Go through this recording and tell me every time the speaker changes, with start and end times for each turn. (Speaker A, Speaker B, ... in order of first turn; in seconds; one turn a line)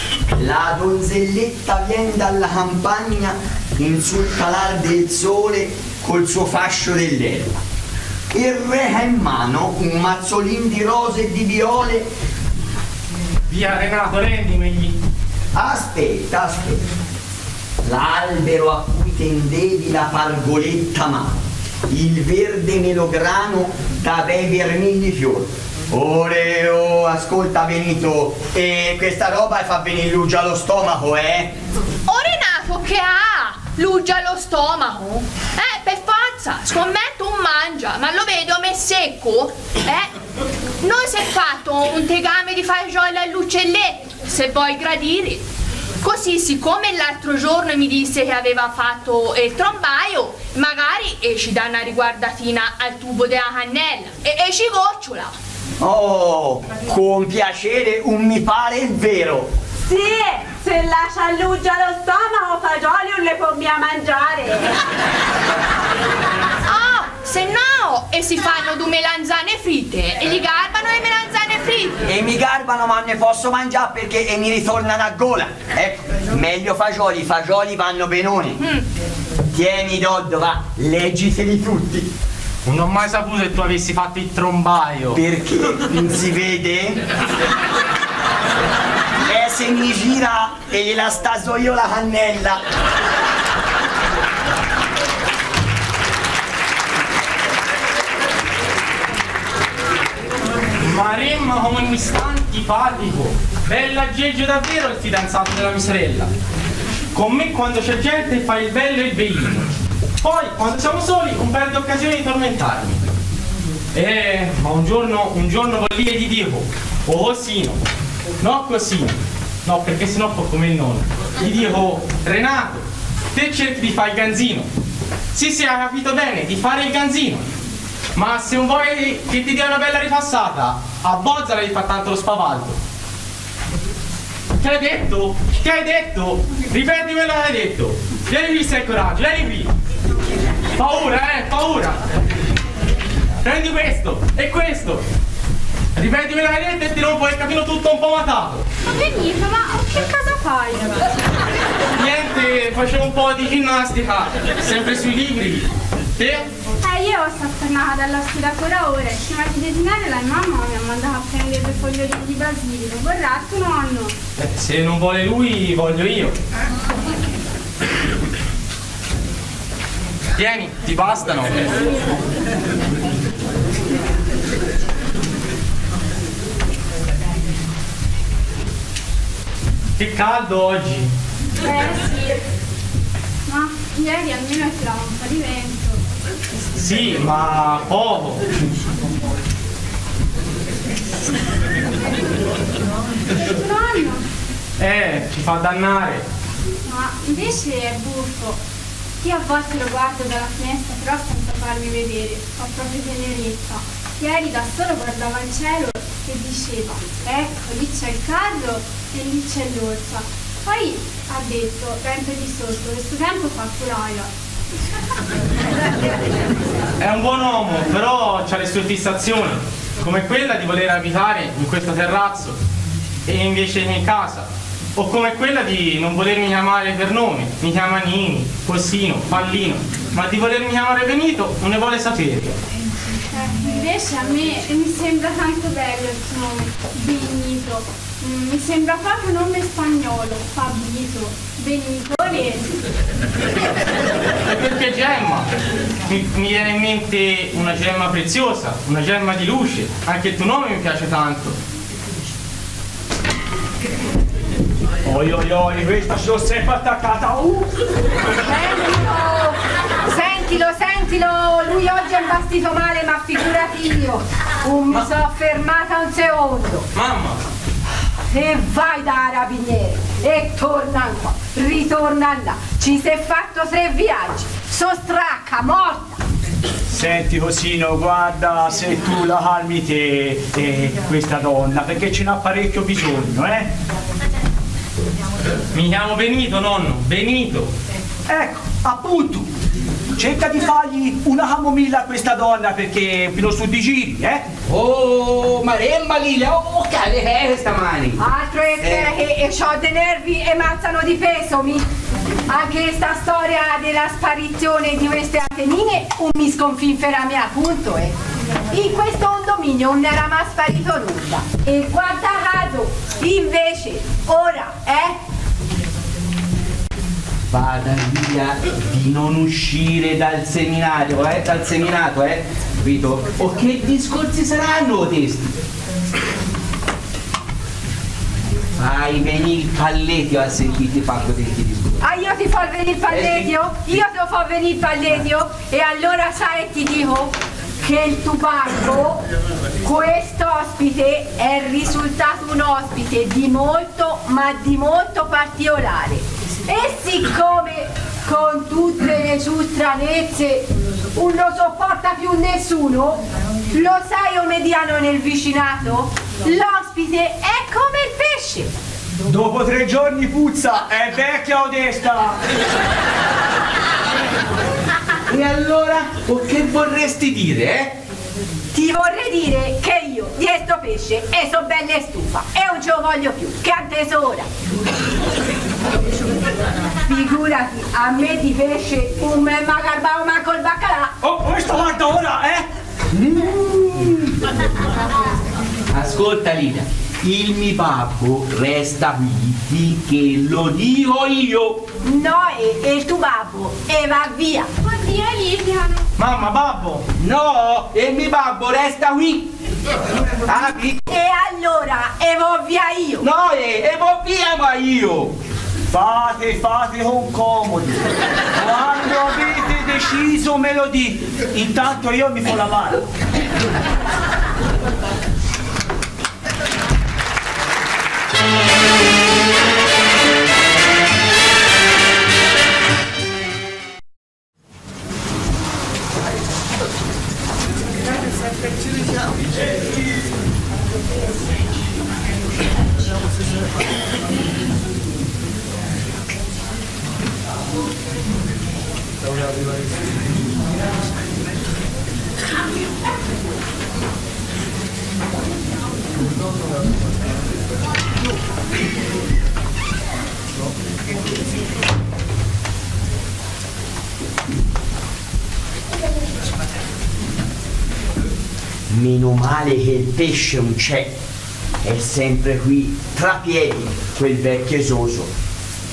Speaker A: 0.3-7.5
Speaker A: 8.3-12.1
Speaker B: 13.5-14.9
Speaker A: 15.6-16.8
Speaker A: 17.8-21.3
Speaker A: 21.9-31.5
Speaker C: 32.1-40.1
Speaker C: 40.8-45.4
Speaker C: 46.0-55.3
Speaker A: 55.8-59.5
Speaker D: 59.9-64.8
Speaker C: 66.7-72.0
Speaker A: 72.0-78.6
Speaker A: 79.5-82.1
Speaker B: 82.7-85.2
Speaker A: 85.1-87.0
Speaker A: 89.3-92.6
Speaker B: 100.8-106.3
Speaker B: 107.1-109.7
Speaker B: 110.2-113.1
Speaker B: 113.9-117.8
Speaker B: 118.4-122.8
Speaker B: 123.3-124.7
Speaker B: 125.3-127.5
Speaker B: 128.2-132.8
Speaker B: 134.6-139.7
Speaker B: 140.8-142.0
Speaker B: 143.4-145.0
Speaker B: 146.0-148.6
Speaker E: 148.9-151.0
Speaker B: 152.0-155.7
Speaker B: 156.2-156.5
Speaker E: 156.8-164.1
Speaker B: 164.4-166.3
Speaker B: 170.4-171.7
Speaker B: 180.0-181.1
Speaker E: 181.6-182.4
Speaker E: 183.5-185.9
Speaker B: 186.8-188.5
Speaker E: 193.4-194.2
Speaker B: 194.8-196.2
Speaker E: 196.9-198.6
Speaker E: 199.2-214.3
Speaker B: 217.0-222.6
Speaker B: 223.3-232.6
Speaker E: 233.3-242.7
Speaker B: 244.5-245.5
Speaker B: 246.1-251.6
Speaker F: 255.0-257.7
Speaker G: 258.4-266.9
Speaker B: 266.9-267.4
Speaker G: 268.3-276.2
Speaker F: 276.9-283.7
Speaker B: 285.7-287.7
Speaker F: 288.3-289.5
Speaker F: 290.1-294.5
Speaker H: 294.7-298.2
Speaker G: 298.2-301.9
Speaker H: 298.8-299.1
Speaker G: 302.5-308.2
Speaker G: 308.7-315.1
Speaker H: 317.5-325.6
Speaker H: 328.8-332.0
Speaker G: 332.0-339.2
Speaker H: 333.1-333.5
Speaker G: 339.8-353.2
Speaker G: 353.7-358.7
Speaker F: 359.2-362.4
Speaker H: 365.3-367.9
Speaker G: 368.7-374.5
Speaker G: 377.1-381.1
Speaker F: 381.2-382.7
Speaker H: 383.1-384.2
Speaker H: 385.9-391.8
Speaker G: 392.0-394.7
Speaker C: 394.9-395.5
Speaker B: 396.2-397.1
Speaker H: 397.2-399.5
Speaker H: 400.4-401.0
Speaker G: 401.0-403.3
Speaker H: 403.2-405.3
Speaker F: 405.9-413.0
Speaker A: 458.9-461.1
Speaker A: 461.8-465.3